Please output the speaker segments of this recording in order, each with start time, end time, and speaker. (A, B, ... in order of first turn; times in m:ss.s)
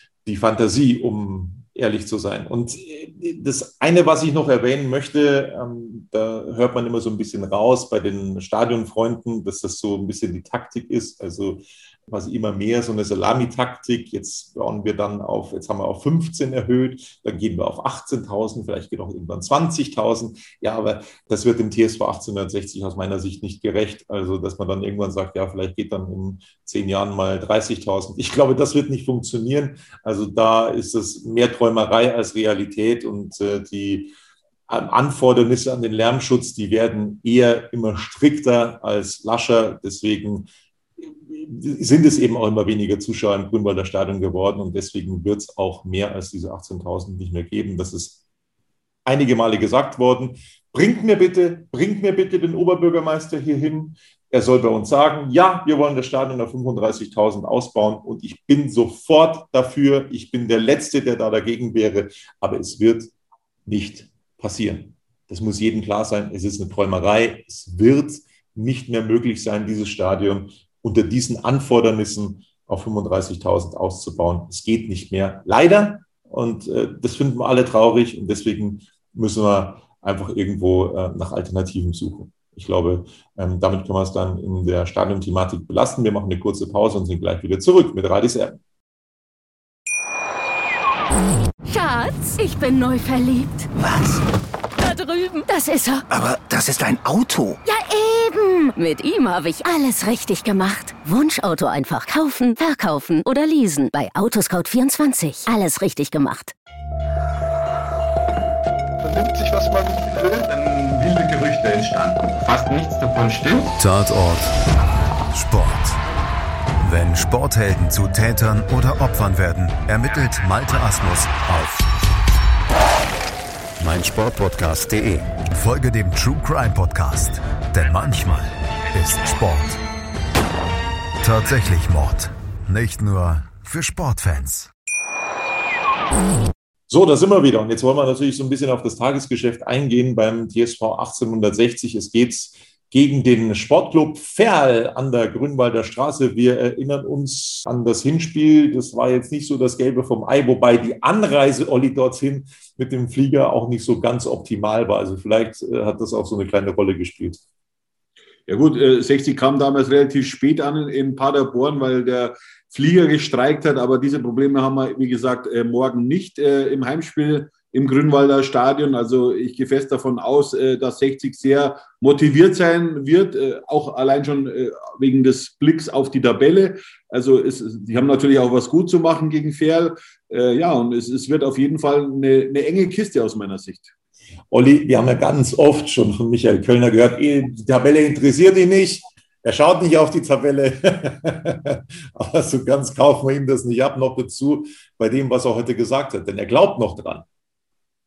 0:00.2-0:34.1 A
0:34.7-0:40.5 A
0:41.2-0:48.2 A
0:49.0-1:03.1 A
1:03.6-1:28.6 A
1:31.6-1:33.7 B
1:33.8-1:34.2 C
1:34.8-1:36.0 B
1:36.1-1:37.6 C
1:37.6-1:46.5 B
1:49.0-1:53.7 D
1:53.8-1:54.5 E
1:55.3-1:56.0 E
1:56.8-2:01.9 E
2:03.8-2:09.8 E
2:11.2-2:14.7 E
2:16.9-2:37.4 A
2:38.5-3:03.9 F
3:04.5-3:17.2 A